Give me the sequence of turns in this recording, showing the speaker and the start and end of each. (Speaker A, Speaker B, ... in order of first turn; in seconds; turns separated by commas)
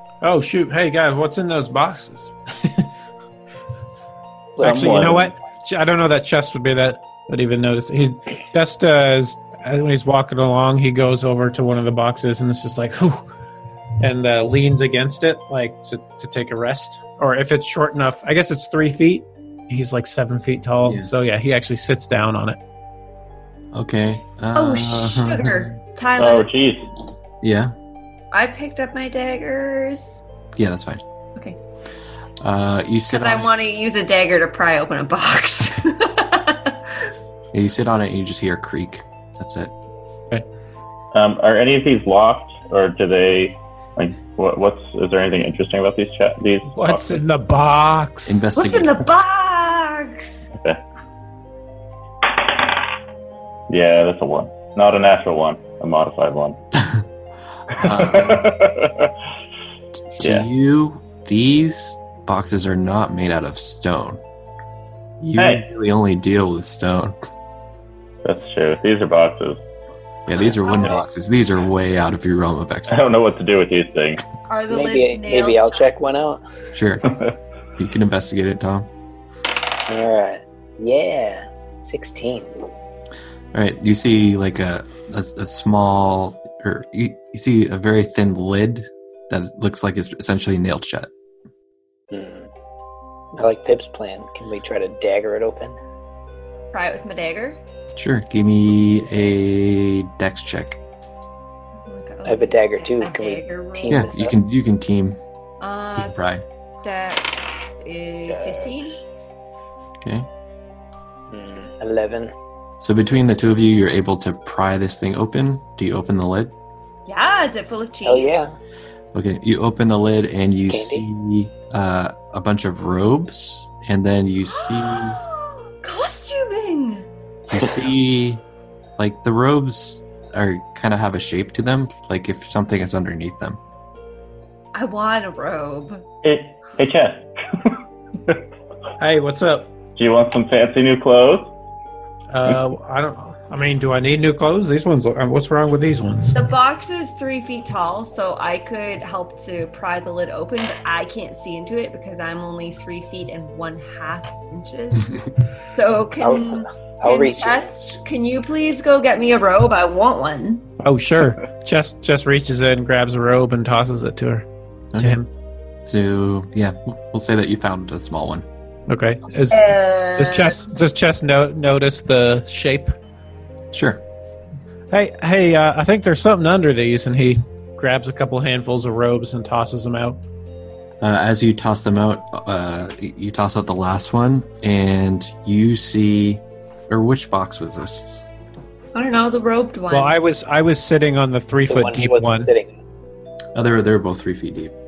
Speaker A: 0.2-2.9, Speaker A: 4.6-13.2, Speaker B: 4.6-5.3, Speaker A: 14.0-22.6, Speaker C: 20.8-21.1, Speaker C: 23.7-25.8, Speaker D: 24.5-26.5, Speaker B: 26.2-26.9, Speaker C: 27.4-27.7, Speaker D: 28.3-30.2, Speaker C: 30.5-31.0, Speaker C: 32.4-33.5, Speaker D: 33.1-36.9, Speaker C: 37.5-39.7, Speaker B: 41.1-47.2, Speaker A: 46.7-48.4, Speaker C: 48.2-49.0, Speaker D: 48.5-50.5, Speaker B: 53.7-56.6, Speaker C: 57.7-58.5, Speaker B: 57.8-59.1, Speaker C: 60.2-64.2, Speaker B: 60.2-60.5, Speaker C: 65.2-67.2, Speaker B: 65.3-65.6, Speaker B: 68.2-69.6, Speaker C: 70.3-73.0, Speaker D: 70.7-70.9, Speaker B: 72.9-74.2, Speaker D: 74.5-75.9, Speaker E: 74.7-76.4, Speaker C: 76.7-77.0, Speaker C: 77.8-78.9, Speaker E: 79.9-82.6, Speaker C: 83.5-91.1, Speaker E: 92.1-92.5, Speaker E: 93.3-95.8, Speaker D: 96.7-97.6, Speaker C: 97.9-100.8, Speaker D: 101.8-104.0, Speaker E: 102.2-104.4, Speaker C: 103.9-105.2, Speaker D: 105.6-106.2, Speaker C: 105.9-106.4, Speaker D: 106.8-109.0, Speaker E: 108.3-108.9, Speaker C: 110.0-110.3, Speaker E: 111.3-112.3, Speaker C: 112.8-116.5, Speaker D: 117.0-118.4, Speaker E: 118.0-118.5, Speaker C: 119.1-125.2, Speaker E: 120.7-121.0, Speaker D: 124.6-127.1, Speaker C: 127.5-128.4, Speaker C: 129.0-133.6, Speaker D: 134.7-136.0, Speaker B: 136.2-138.4, Speaker A: 139.0-139.7, Speaker B: 140.0-141.5, Speaker A: 142.3-146.4, Speaker D: 146.3-155.2, Speaker D: 155.7-160.7, Speaker E: 156.2-157.7, Speaker A: 160.8-164.4, Speaker C: 164.9-165.2, Speaker A: 165.0-165.3, Speaker C: 165.8-168.4, Speaker A: 168.9-172.9, Speaker D: 169.5-170.6, Speaker C: 173.7-174.0, Speaker A: 174.9-180.2, Speaker C: 181.0-188.2, Speaker D: 188.9-190.2, Speaker A: 189.9-192.5, Speaker E: 191.7-192.8, Speaker C: 193.5-194.7